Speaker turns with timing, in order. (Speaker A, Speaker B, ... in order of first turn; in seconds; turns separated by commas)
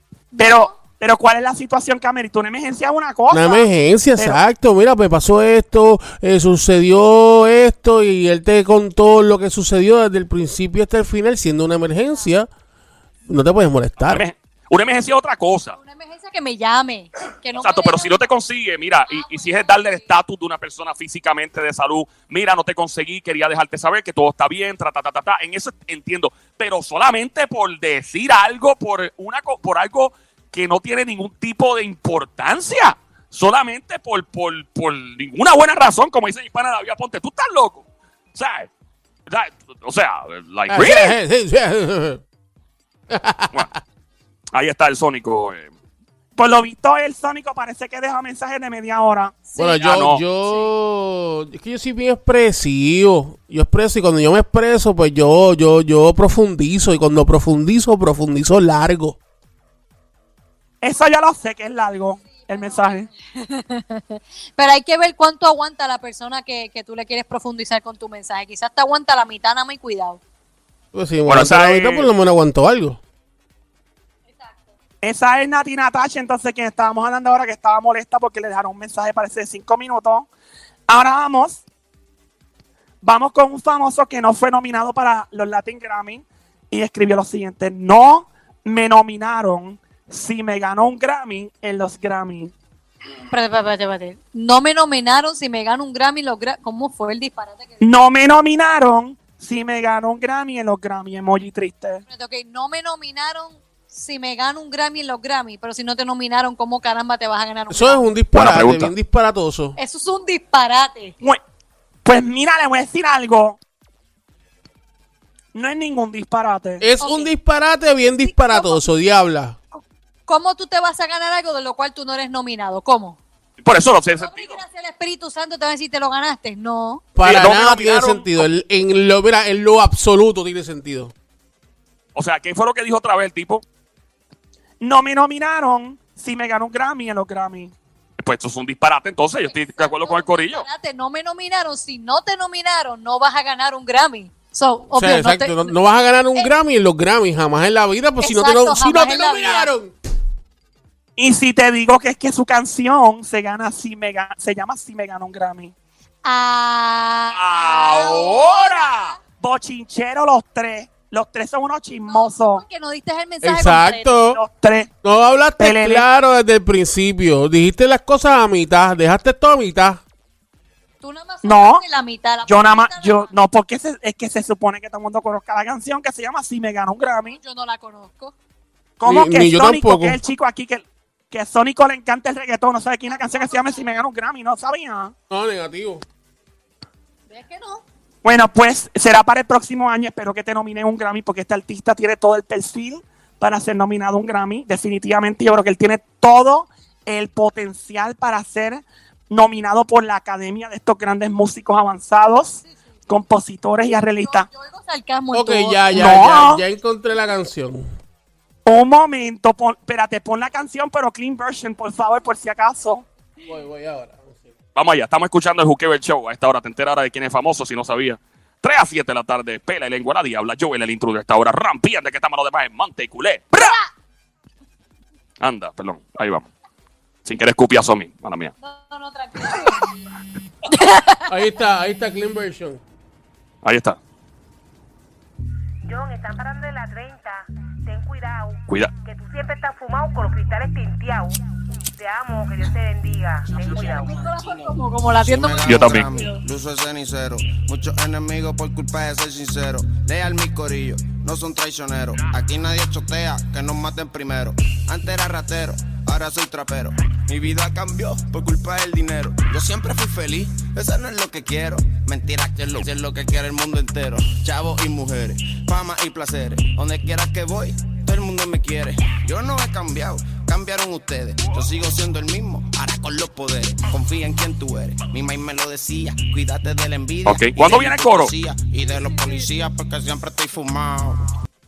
Speaker A: 0.3-0.7, Speaker B: 0.4-4.4, Speaker C: 3.3-12.5, Speaker C: 13.3-14.2, Speaker D: 14.0-15.8, Speaker A: 15.7-18.3, Speaker D: 17.6-38.7, Speaker A: 19.1-20.1, Speaker D: 39.3-41.1, Speaker C: 40.7-42.2, Speaker C: 43.1-43.8, Speaker D: 44.5-45.7, Speaker B: 46.4-49.4, Speaker A: 49.5-49.8, Speaker C: 49.6-59.2, Speaker D: 49.8-50.2, Speaker A: 50.4-50.7, Speaker B: 60.8-63.1, Speaker A: 62.3-70.2, Speaker C: 70.9-73.0, Speaker D: 71.3-72.1, Speaker A: 74.3-74.7, Speaker B: 75.0-80.3, Speaker B: 80.9-81.6, Speaker B: 83.0-92.5, Speaker A: 93.3-97.8, Speaker B: 97.8-102.0, Speaker A: 102.1-108.1, Speaker C: 107.7-109.8, Speaker D: 108.3-108.9, Speaker A: 109.8-111.2, Speaker B: 112.0-113.6, Speaker B: 115.5-116.8, Speaker C: 116.8-119.6, Speaker A: 117.0-117.3, Speaker A: 118.2-118.9, Speaker A: 119.8-123.2, Speaker D: 123.6-124.6, Speaker A: 124.2-127.0, Speaker C: 127.2-131.1, Speaker D: 127.2-128.5, Speaker D: 132.2-133.6, Speaker B: 134.8-137.7, Speaker D: 138.2-140.7, Speaker A: 139.4-145.8, Speaker C: 144.9-149.9, Speaker A: 148.2-149.7, Speaker B: 151.2-155.7, Speaker A: 156.2-159.2, Speaker D: 157.3-159.1, Speaker B: 159.4-162.6, Speaker A: 162.1-164.2, Speaker C: 163.4-164.4, Speaker B: 164.3-164.9, Speaker C: 165.0-170.0, Speaker B: 165.6-166.1, Speaker A: 171.0-173.3, Speaker B: 171.4-171.8, Speaker B: 172.5-177.4, Speaker A: 177.3-178.3, Speaker B: 179.0-185.1, Speaker C: 179.0-180.2, Speaker A: 183.1-183.9, Speaker C: 185.3-186.0, Speaker A: 187.3-187.8, Speaker B: 188.2-204.5, Speaker A: 202.6-203.0, Speaker A: 204.2-206.2, Speaker C: 205.3-207.9, Speaker B: 205.9-206.6, Speaker B: 208.7-213.1, Speaker C: 213.5-214.5, Speaker D: 214.8-223.8, Speaker A: 223.6-223.9, Speaker D: 225.4-226.5, Speaker D: 227.2-228.5, Speaker A: 228.6-229.9, Speaker A: 230.7-231.3, Speaker C: 231.3-232.8, Speaker D: 233.6-234.0, Speaker E: 235.8-244.2, Speaker F: 243.5-281.2, Speaker A: 243.8-246.4, Speaker D: 245.7-246.1, Speaker D: 277.3-278.3, Speaker A: 278.8-279.5